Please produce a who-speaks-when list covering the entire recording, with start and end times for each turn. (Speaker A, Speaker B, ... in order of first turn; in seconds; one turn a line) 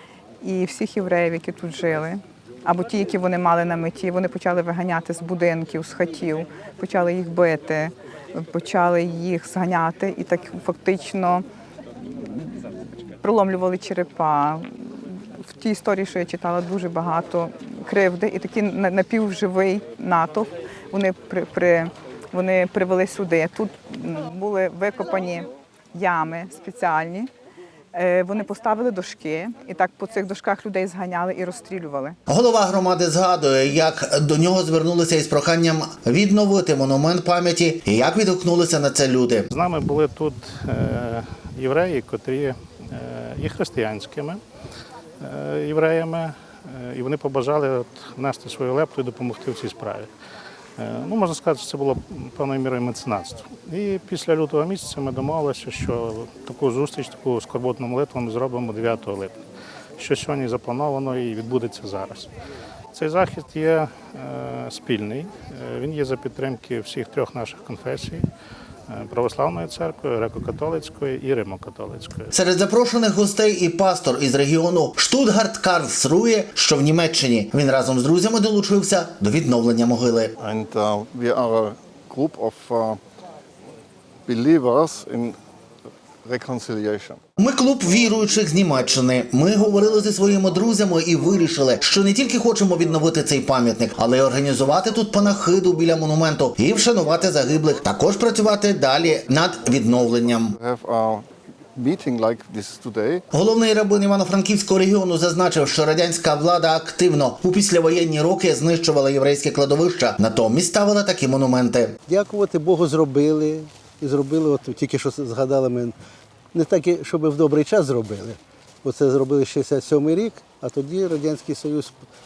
Speaker A: 0.4-11.4
Speaker A: 12.0-27.3
Speaker A: 27.9-32.2
Speaker B: 32.3-39.5
Speaker C: 39.5-44.4
Speaker C: 45.2-50.1
Speaker C: 50.8-59.4
Speaker C: 60.0-62.3
Speaker C: 62.9-68.3
Speaker C: 68.9-72.3
Speaker B: 72.3-80.3
Speaker D: 80.4-83.0
Speaker D: 84.3-85.4
Speaker D: 86.2-87.2
Speaker B: 87.4-100.6
Speaker D: 100.6-103.2
Speaker B: 103.3-112.0
Speaker E: 112.1-116.0
Speaker E: 116.5-122.0